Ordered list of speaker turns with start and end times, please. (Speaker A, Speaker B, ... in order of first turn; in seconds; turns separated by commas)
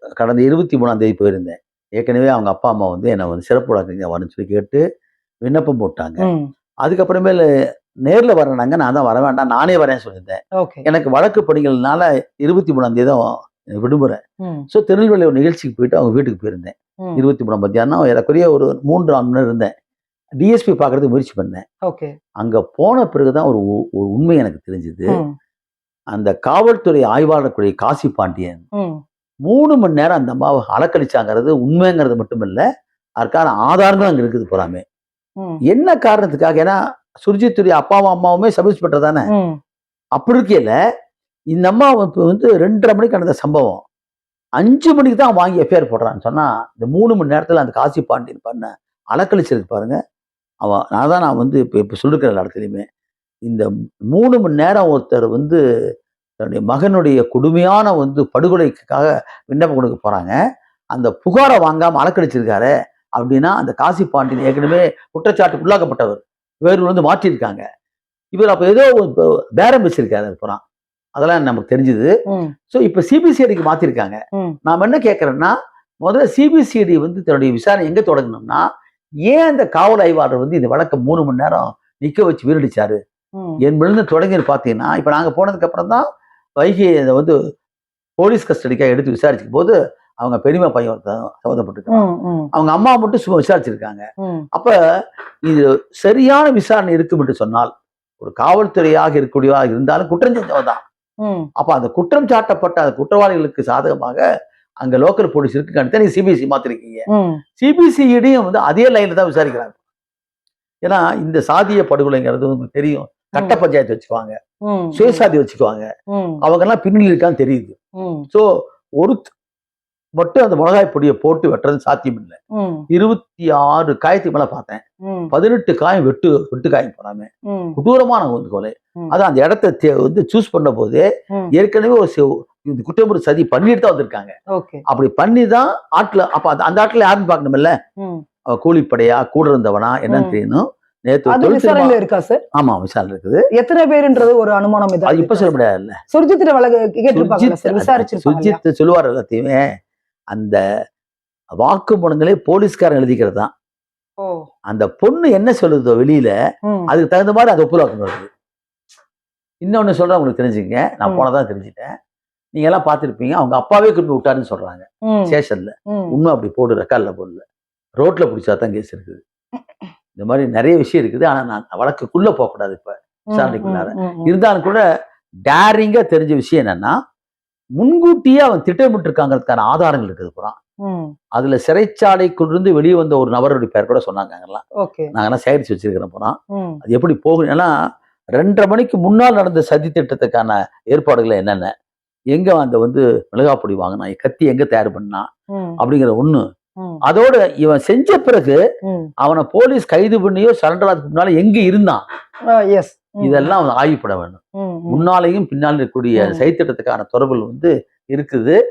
Speaker A: 0.2-4.8, Speaker A: 5.4-6.2, Speaker B: 6.2-6.5, Speaker A: 6.8-7.4, Speaker A: 8.1-19.7, Speaker B: 10.6-10.8, Speaker A: 20.4-21.6, Speaker B: 21.9-22.1, Speaker A: 22.4-25.2, Speaker A: 26.1-28.6, Speaker A: 29.5-32.6, Speaker A: 33.2-34.8, Speaker A: 35.7-39.3, Speaker B: 39.3-39.6, Speaker A: 40.2-40.7, Speaker A: 41.5-43.8, Speaker A: 44.6-50.0, Speaker A: 50.6-52.8, Speaker A: 53.5-55.6, Speaker A: 56.4-60.4, Speaker A: 61.0-67.6, Speaker A: 68.3-70.6, Speaker A: 71.2-72.1, Speaker A: 72.7-78.6, Speaker A: 79.3-83.0, Speaker A: 83.6-86.0, Speaker A: 86.6-87.3, Speaker A: 88.2-94.7, Speaker B: 91.9-92.5, Speaker A: 95.4-100.8, Speaker A: 101.6-104.2, Speaker A: 104.8-107.0, Speaker B: 107.1-107.4, Speaker A: 107.6-109.7, Speaker A: 110.8-114.3, Speaker B: 114.7-115.2, Speaker A: 114.9-115.9, Speaker B: 116.1-116.4, Speaker A: 116.4-117.8, Speaker B: 118.0-118.3, Speaker A: 119.0-119.3, Speaker A: 120.2-122.3, Speaker B: 122.5-122.8, Speaker A: 122.9-134.3, Speaker B: 127.5-127.8, Speaker B: 134.5-134.8, Speaker A: 134.9-137.7, Speaker A: 138.5-142.0, Speaker B: 140.1-140.3, Speaker B: 141.3-142.4, Speaker A: 142.6-143.4, Speaker B: 143.6-145.5, Speaker A: 145.1-146.0, Speaker B: 146.1-148.6, Speaker A: 147.1-149.6, Speaker A: 150.3-150.6, Speaker A: 151.5-153.5, Speaker A: 154.7-156.3, Speaker A: 156.9-158.2, Speaker A: 159.6-161.9, Speaker A: 162.5-167.4, Speaker B: 165.1-165.3, Speaker A: 168.0-169.2, Speaker A: 170.2-174.8, Speaker B: 173.3-174.3, Speaker A: 175.4-176.9, Speaker A: 177.8-180.6, Speaker B: 180.8-181.1, Speaker A: 181.3-187.7, Speaker B: 184.8-185.1, Speaker B: 186.5-186.8, Speaker A: 188.3-191.7, Speaker A: 192.3-195.3, Speaker A: 195.8-196.4, Speaker A: 197.0-198.6, Speaker A: 199.2-202.0, Speaker B: 202.5-203.5, Speaker A: 203.2-204.4, Speaker B: 204.6-205.0, Speaker A: 204.9-208.6, Speaker B: 206.2-206.4